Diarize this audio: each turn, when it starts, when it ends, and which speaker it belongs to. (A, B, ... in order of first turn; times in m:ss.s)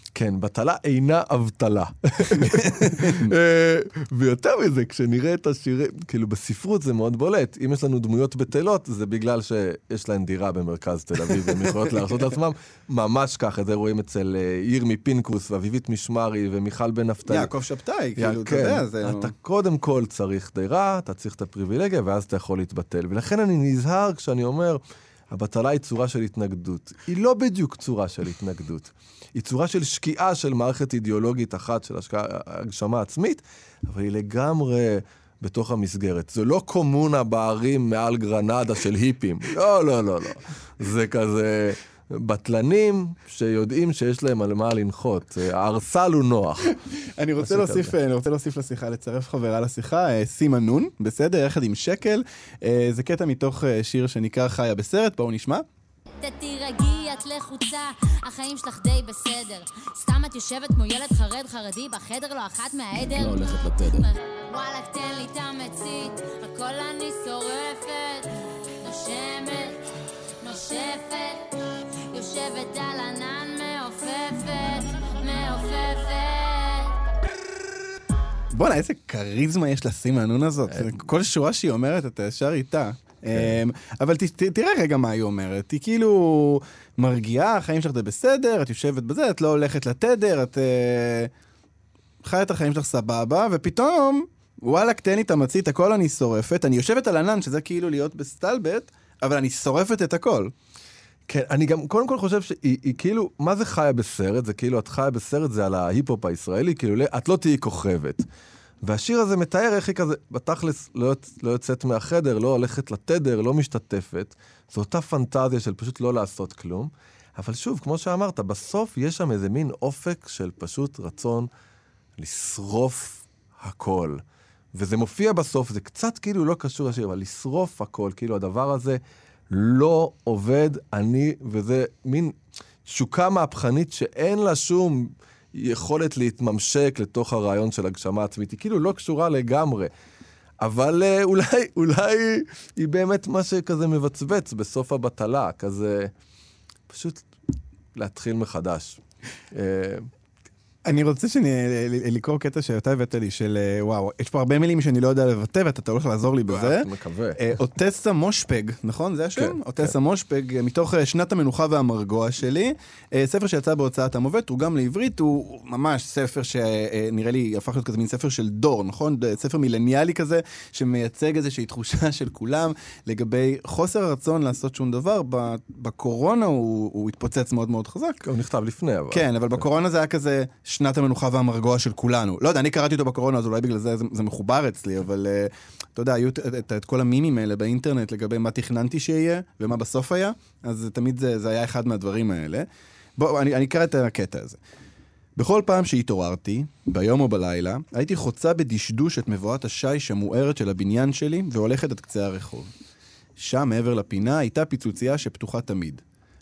0:00.1-0:17.5 A
0:02.4-0:03.3 B
0:17.3-0:19.3 B
0:18.2-0:46.7 A
0:47.2-0:55.6 B
0:47.4-0:47.9 A
0:56.2-1:08.3 C
1:03.1-1:04.0 A
1:08.8-1:09.8 C
1:10.4-1:11.5 C
1:12.1-1:17.0 C
1:18.5-1:31.3 B
1:20.7-1:21.0 A
1:32.2-1:40.5 B
1:41.3-1:48.2 A
1:48.8-2:01.5 A
2:02.2-2:04.2 A
2:04.7-2:19.9 A
2:20.6-2:26.1 A
2:26.9-2:27.3 A
2:27.9-2:29.0 A
2:29.5-2:30.1 A
2:30.8-2:58.2 B
2:36.5-2:37.4 A
2:39.4-2:39.9 A
2:58.2-2:59.6 A
2:59.1-3:12.7 B
3:13.2-3:14.6 B
3:15.4-3:22.7 B
3:23.4-3:26.0 B